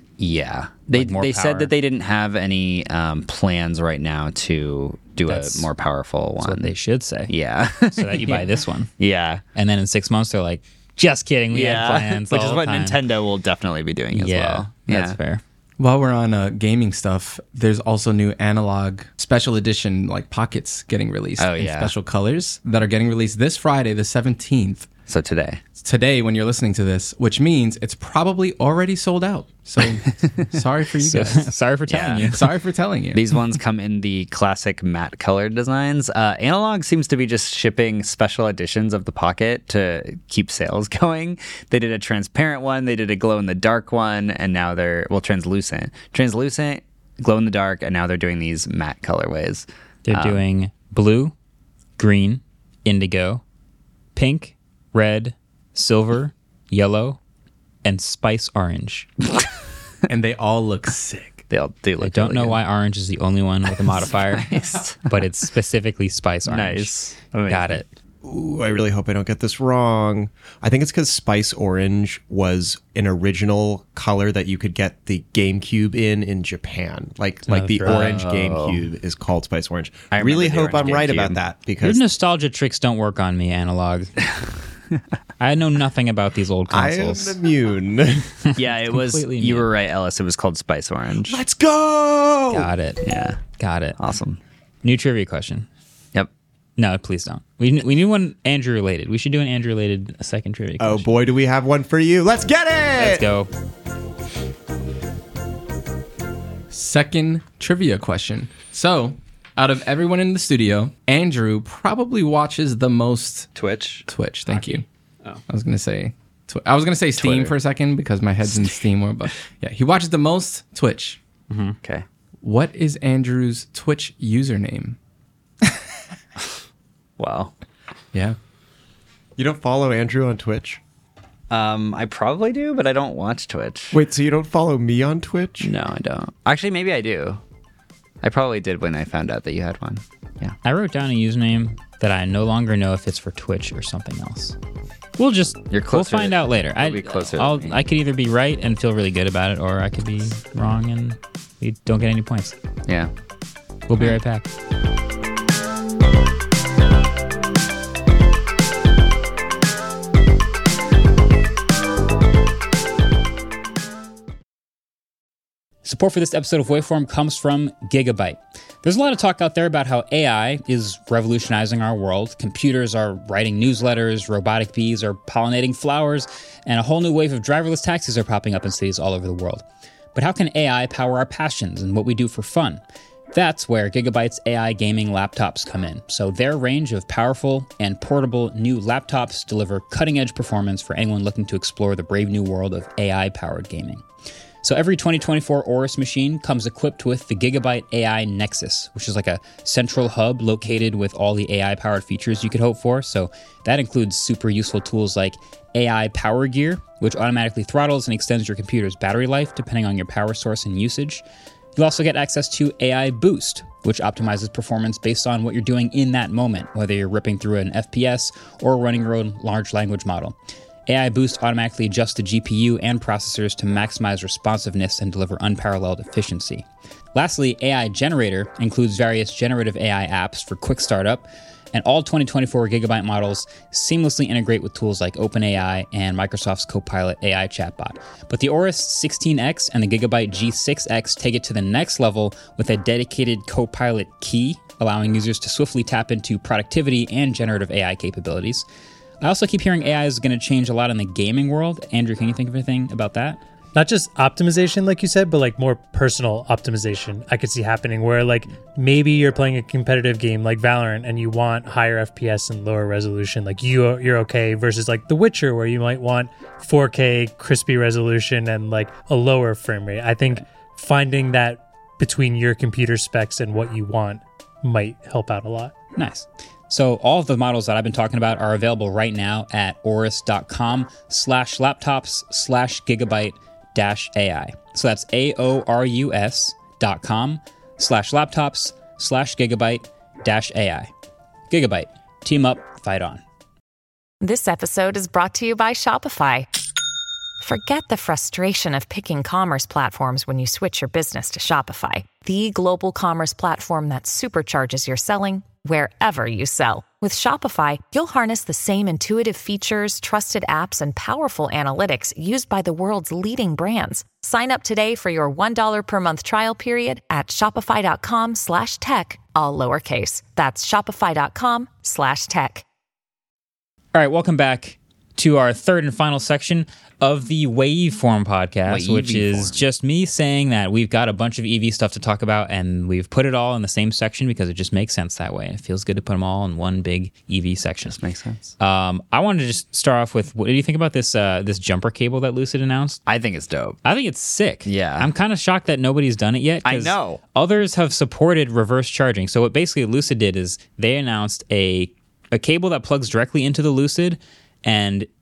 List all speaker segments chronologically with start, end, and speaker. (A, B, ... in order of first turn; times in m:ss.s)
0:00.2-0:06.7 A
0:00.9-0:01.7 B
0:05.2-0:05.7 B
0:06.4-0:07.3 B
0:07.3-0:09.4 A
0:07.9-0:08.9 B
0:09.5-0:13.0 B
0:11.5-0:15.2 A
0:14.1-0:15.4 B
0:15.8-0:24.9 C
0:21.4-0:21.9 A
0:25.1-0:25.6 A
0:25.8-0:31.5 C
0:31.0-0:32.5 B
0:31.9-0:32.4 A
0:32.3-0:33.3 C
0:33.1-0:50.4 A
0:50.0-0:51.3 B
0:52.0-0:53.4 B
0:54.1-0:57.2 B
0:57.8-0:59.1 B
1:00.1-1:01.4 C
1:01.5-1:02.6 A
1:02.0-1:04.5 B
1:04.0-1:05.2 A
1:05.0-1:06.9 B
1:06.4-1:07.8 A
1:07.5-1:07.9 B
1:08.2-1:22.0 D
1:17.5-1:18.2 B
1:17.8-1:18.8 A
1:20.1-1:21.4 A
1:21.8-1:24.1 B
1:25.4-1:27.4 B
1:26.7-1:28.3 D
1:28.5-1:29.7 B
1:28.6-1:31.4 A
1:31.2-1:32.7 D
1:32.5-1:33.0 B
1:33.0-1:33.4 A
1:33.5-1:34.0 B
1:34.0-1:34.4 A
1:34.8-1:35.7 B
1:36.8-1:41.1 B
1:40.8-1:43.3 D
1:43.0-1:43.5 B
1:46.7-1:53.5 C
1:53.5-1:54.1 A
1:54.1-1:54.8 C
1:55.5-2:01.2 C
1:57.2-1:57.6 A
2:01.5-2:01.8 B
2:02.4-2:05.0 C
2:07.2-2:07.5 A
2:09.4-2:10.8 D
2:11.5-2:14.0 A
2:13.9-2:15.7 D
2:15.6-2:17.4 A
2:18.2-2:20.5 A
2:20.6-2:24.6 B
2:25.2-2:32.6 B
2:25.7-2:27.8 A
2:32.8-2:33.1 A
2:33.9-2:34.5 B
2:45.8-3:02.8 B
3:03.3-3:14.0 B
3:14.6-3:31.2 B
3:31.8-3:40.3 B
3:40.9-4:08.6 B
4:09.2-4:13.4 B
4:13.7-4:35.7 E
4:36.0-4:50.9 B
4:51.5-4:53.2 B
4:54.2-4:56.5 F
4:57.4-5:22.6 F
5:23.9-5:38.0 B
5:28.7-5:29.6 A
5:37.9-5:38.5 A
5:38.6-5:43.0 B
5:43.1-5:43.8 A
5:43.8-5:55.1 B
5:44.6-5:45.1 A
5:46.6-5:47.2 A